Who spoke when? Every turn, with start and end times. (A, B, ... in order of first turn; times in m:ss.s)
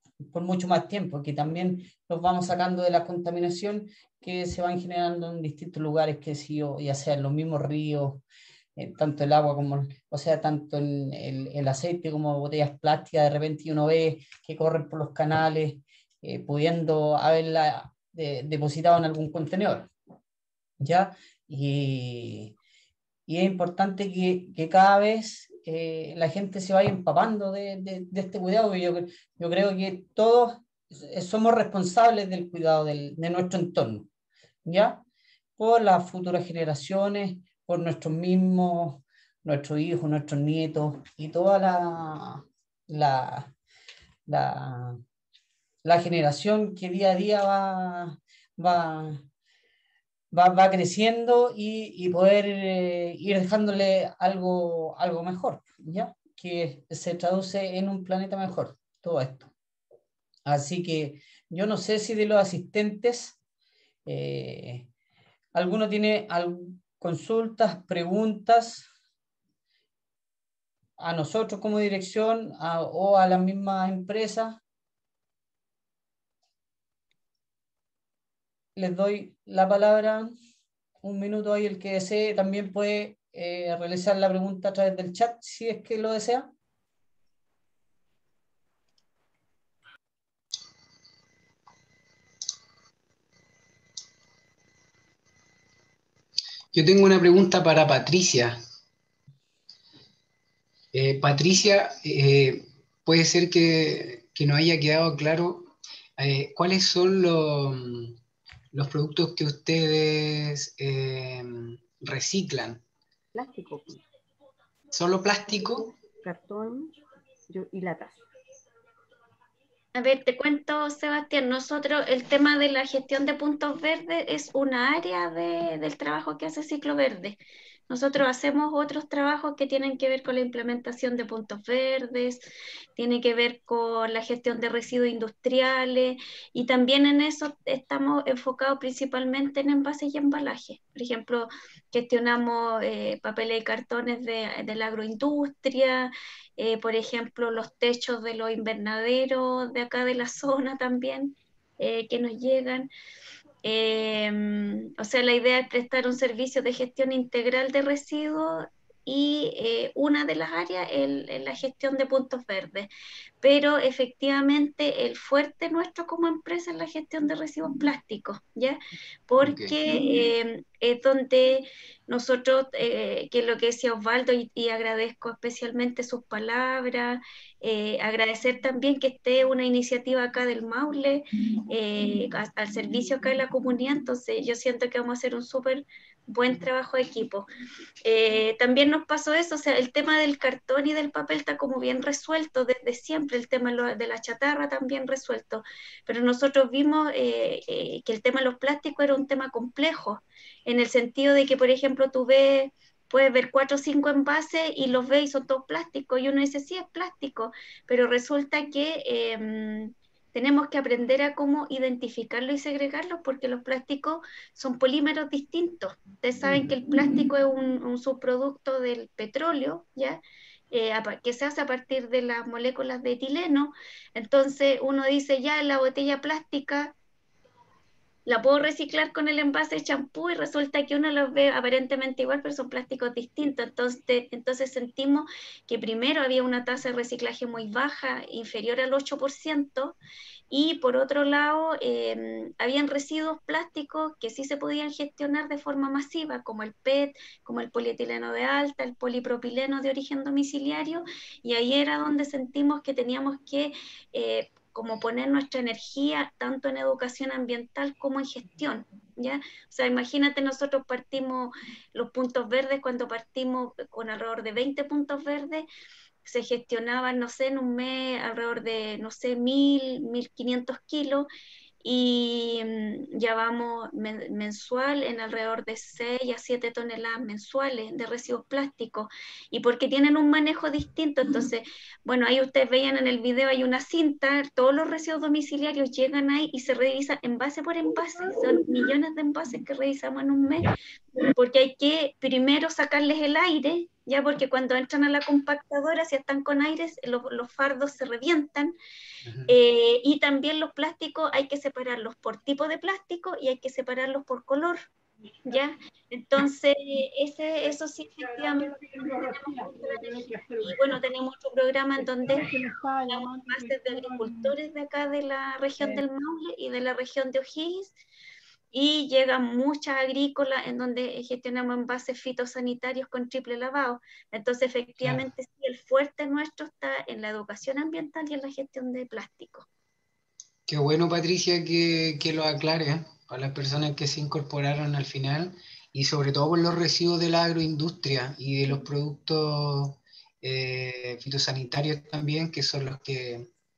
0:00.3-0:08.2 A
0:08.8-0:19.9 A
0:20.8-0:22.6 A
0:23.3-0:34.1 A
0:34.7-0:35.0 A
0:35.6-0:43.5 A
0:44.3-0:45.0 A
0:45.8-0:49.2 A
0:50.3-0:59.5 A
1:00.5-1:03.4 A
1:04.1-1:04.9 A
1:05.5-1:08.9 A
1:11.0-1:14.6 A
1:18.8-1:20.3 A
1:21.0-1:26.5 A
1:36.7-1:38.6 B
1:40.9-1:48.2 B
1:48.7-1:52.8 B
1:53.3-1:54.0 C
1:54.9-1:55.9 B
1:56.2-1:56.9 C
1:57.5-1:58.2 C
2:00.0-2:12.4 D
2:13.0-2:32.9 D
2:33.6-2:42.9 D
2:43.4-3:07.5 D
2:49.4-2:49.8 B
3:08.0-3:40.2 D
3:40.7-3:47.0 D
3:48.3-4:00.0 D
4:00.5-4:25.7 D
4:26.2-4:31.3 D
4:31.8-4:58.8 D
4:59.3-4:59.5 B
4:59.5-5:04.9 D
5:05.5-5:12.5 D
5:08.8-5:10.8 C
5:12.2-5:14.5 C
5:13.1-5:18.0 D
5:18.7-5:29.7 D
5:30.7-5:43.5 B